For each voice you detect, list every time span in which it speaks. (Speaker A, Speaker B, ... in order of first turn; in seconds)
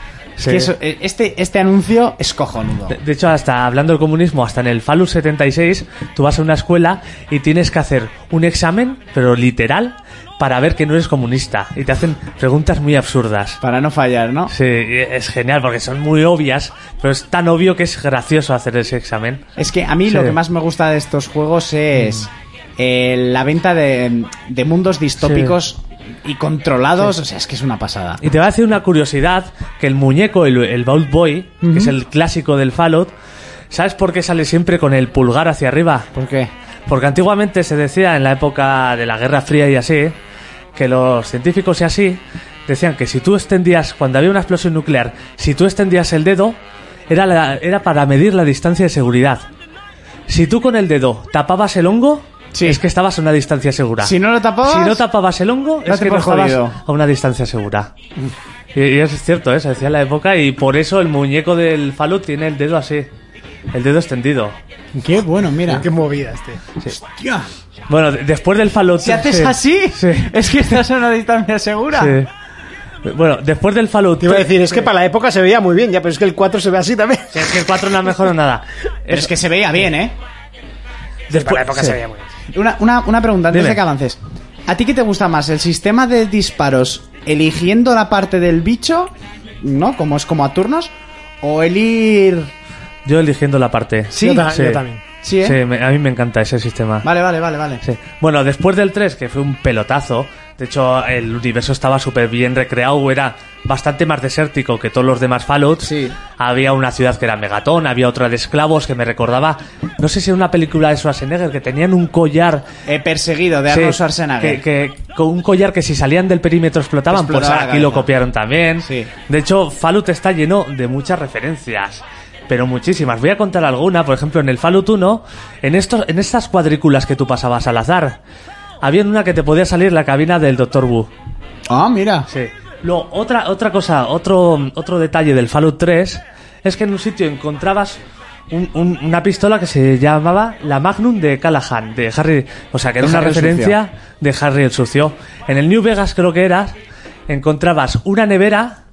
Speaker A: 0.4-0.7, 2.9-13.6, 14.5-19.4, 20.1-20.4, 22.0-22.2, 25.2-25.5, 28.2-33.1, 33.7-36.1, 36.9-40.1, 40.7-46.6, 47.1-49.4, 50.3-57.9, 58.7-63.1, 63.7-64.6, 67.9-70.4, 71.9-72.3, 73.0-74.8, 77.3-79.3, 81.3-82.0, 83.5-83.8, 93.0-94.8, 95.4-97.0, 97.8-112.6, 113.7-128.2, 128.8-131.1, 132.3-138.0, 138.5-146.8, 147.3-148.8
Speaker B: 0.4-3.0, 13.6-14.5, 19.6-28.2, 31.6-31.9, 36.1-36.5, 52.5-52.8, 54.0-55.0, 55.8-56.8, 65.0-65.8, 66.8-67.5, 69.0-72.2, 79.1-80.2, 82.5-92.5, 94.1-94.5, 95.2-95.6, 97.0-97.8, 105.8-106.2, 112.8-114.6, 117.1-118.1, 118.8-119.1, 131.7-132.3, 143.0-143.8
Speaker C: 65.7-66.6, 74.2-77.5, 81.3-82.3, 94.2-95.0